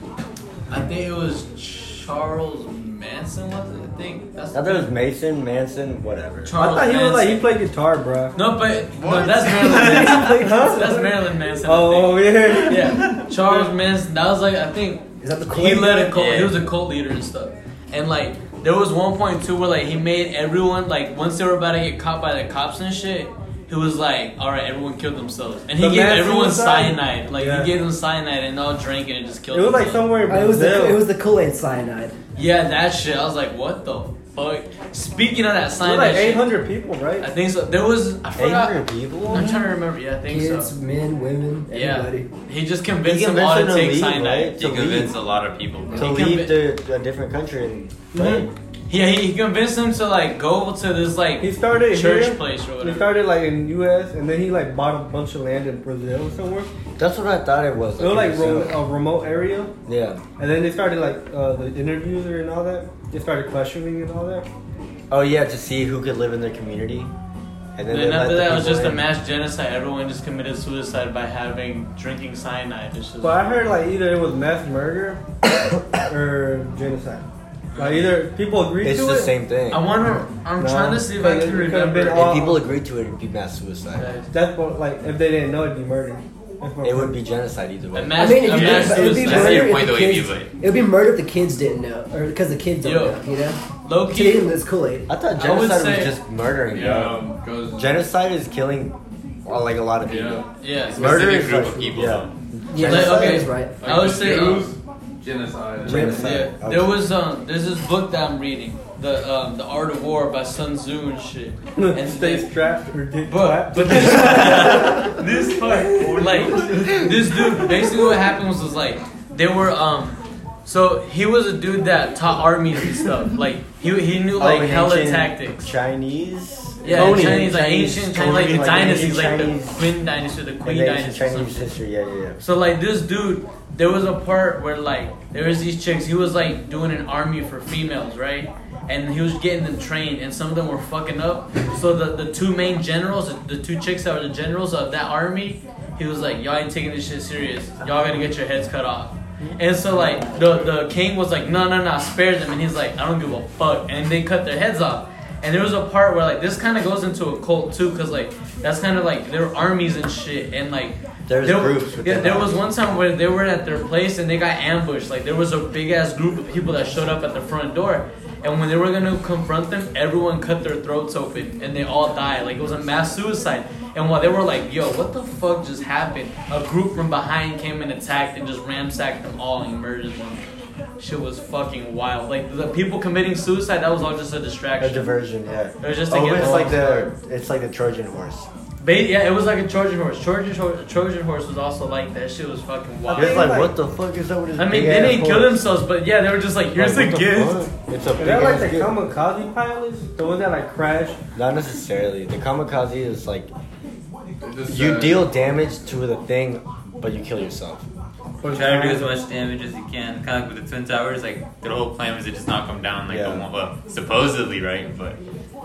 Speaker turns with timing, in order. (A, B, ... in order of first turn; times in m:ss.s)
0:00.7-0:04.9 A
0:04.5-0:06.5 B
0:06.4-0:07.5 A
0:06.5-0:08.4 C
0:08.3-0:30.1 A
0:09.0-0:10.5 D
0:09.4-0:10.9 E
0:10.0-0:13.6 C
0:12.9-0:13.2 D
0:15.2-0:16.2 E
0:16.1-0:16.6 D
0:25.8-0:27.7 C
0:29.5-0:31.0 C
0:30.3-0:32.1 E
0:32.4-0:36.5 A
0:35.8-0:37.3 C
0:37.2-0:40.7 A
0:38.4-0:39.5 B
0:39.3-0:39.7 E
0:40.3-0:42.3 E
0:41.7-0:44.5 A
0:43.0-0:45.2 B
0:44.6-0:46.1 D
0:45.9-0:46.6 A
0:45.9-0:48.5 B
0:48.1-0:48.5 C
0:48.9-0:53.1 A
0:51.4-0:56.7 C
0:57.0-0:58.8 B
0:58.0-0:59.7 C
0:59.9-1:00.2 B
1:00.4-1:04.5 C
1:05.1-1:07.1 B
1:07.8-1:09.0 B
1:07.8-1:13.4 A
1:13.2-1:15.2 C
1:16.0-1:19.3 C
1:17.8-1:18.1 A
1:18.8-1:19.9 B
1:19.7-1:22.4 A
1:20.0-1:22.8 C
1:22.1-1:24.1 B
1:24.0-1:24.3 A
1:24.3-1:27.1 C
1:26.8-1:29.1 B
1:27.9-1:29.7 A
1:28.2-1:35.1 E
1:29.0-1:30.5 D
1:32.8-1:33.2 A
1:33.8-1:34.5 A
1:35.1-1:37.2 B
1:35.4-1:36.1 A
1:36.7-1:38.0 F
1:37.8-1:43.5 B
1:40.0-1:40.4 F
1:40.6-1:41.3 A
1:40.9-1:42.3 D
1:41.0-1:41.9 F
1:42.7-1:44.1 E
1:42.8-1:44.7 A
1:43.8-1:46.4 F
1:45.8-1:47.0 B
1:45.9-1:52.5 A
1:51.8-1:57.4 C
1:53.2-2:05.7 A
2:04.4-2:09.9 B
2:06.8-2:11.7 A
2:06.9-2:07.5 E
2:10.6-2:12.4 B
2:12.4-3:00.4 A
2:41.3-2:42.6 B
3:01.0-3:05.1 A
3:04.8-3:08.5 B
3:05.8-3:07.1 A
3:08.8-3:13.5 A
3:13.1-3:13.7 C
3:13.1-3:15.6 B
3:14.6-3:17.7 A
3:16.8-3:18.9 B
3:18.2-3:21.2 C
3:21.3-3:23.5 B
3:24.4-3:25.4 F
3:24.7-3:27.8 B
3:28.4-3:29.2 C
3:28.5-3:35.2 D
3:33.1-3:33.4 B